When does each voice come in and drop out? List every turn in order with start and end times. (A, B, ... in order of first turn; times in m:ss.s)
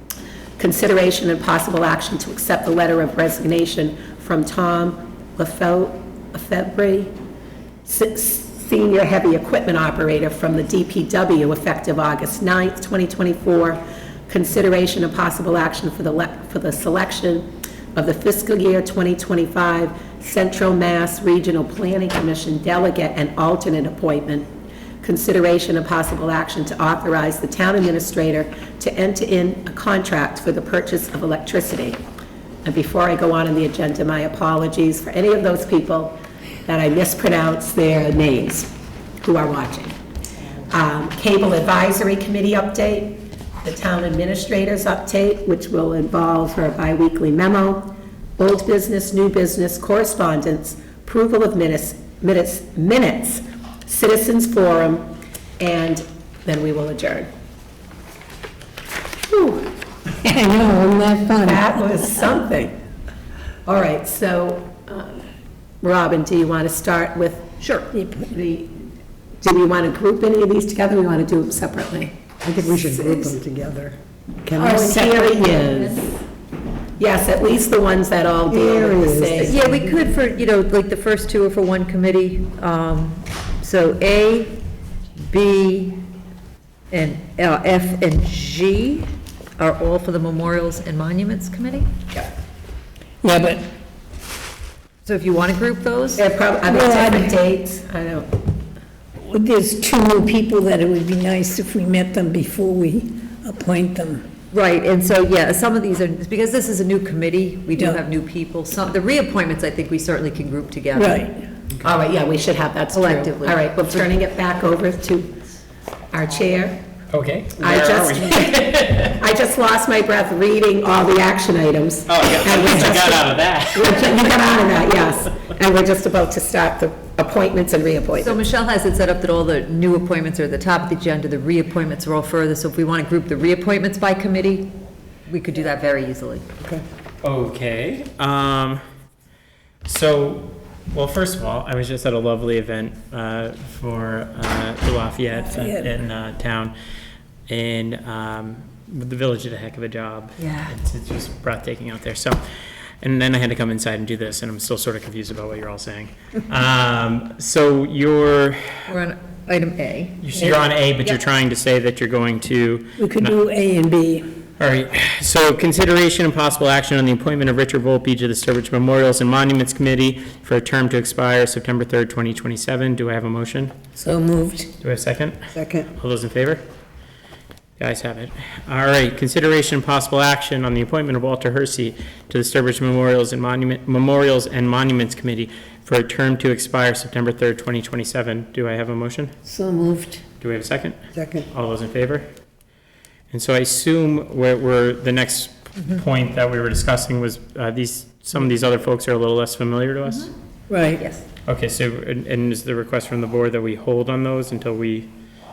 0:00.6-0:07.1 A
0:07.8-0:24.5 A
0:25.0-0:32.0 A
0:32.6-0:40.0 A
0:40.7-0:55.1 A
0:55.6-0:57.3 A
0:59.3-0:59.6 A
1:00.2-1:01.6 B
1:01.4-1:02.8 A
1:03.7-1:05.3 A
1:05.8-1:07.6 A
1:07.9-1:08.3 B
1:08.2-1:08.8 A
1:09.4-1:12.1 A
1:12.4-1:15.6 B
1:14.6-1:16.1 A
1:17.0-1:19.6 A
1:18.5-1:19.8 B
1:19.4-1:24.6 C
1:25.3-1:26.0 C
1:26.9-1:31.9 C
1:33.2-1:33.7 B
1:35.0-1:36.2 C
1:36.2-1:38.3 A
1:36.7-1:37.3 B
1:39.3-1:44.2 B
1:44.5-1:51.3 C
1:47.8-1:48.0 B
1:51.0-1:51.4 B
1:51.8-1:55.4 A
1:52.9-1:53.7 C
1:56.1-1:56.8 A
1:57.1-1:59.2 D
1:57.6-2:08.4 A
2:02.1-2:04.2 D
2:08.2-2:14.8 C
2:15.3-2:16.5 C
2:17.2-2:18.8 D
2:19.9-2:26.7 D
2:25.4-2:25.9 B
2:27.5-2:32.4 D
2:30.4-2:30.7 C
2:33.0-2:38.9 D
2:38.9-2:41.2 C
2:40.2-2:43.4 D
2:43.0-2:44.3 B
2:44.6-2:53.7 D
2:54.0-2:54.7 B
2:54.8-2:55.4 D
2:55.5-2:55.9 B
2:56.0-2:56.6 D
2:57.8-3:09.3 D
3:09.6-3:10.1 B
3:09.6-3:09.9 C
3:10.4-3:11.0 D
3:11.1-3:11.5 B
3:11.5-3:12.3 D
3:13.3-3:20.3 D
3:20.0-3:21.2 C
3:20.7-3:21.0 B
3:21.5-3:25.1 D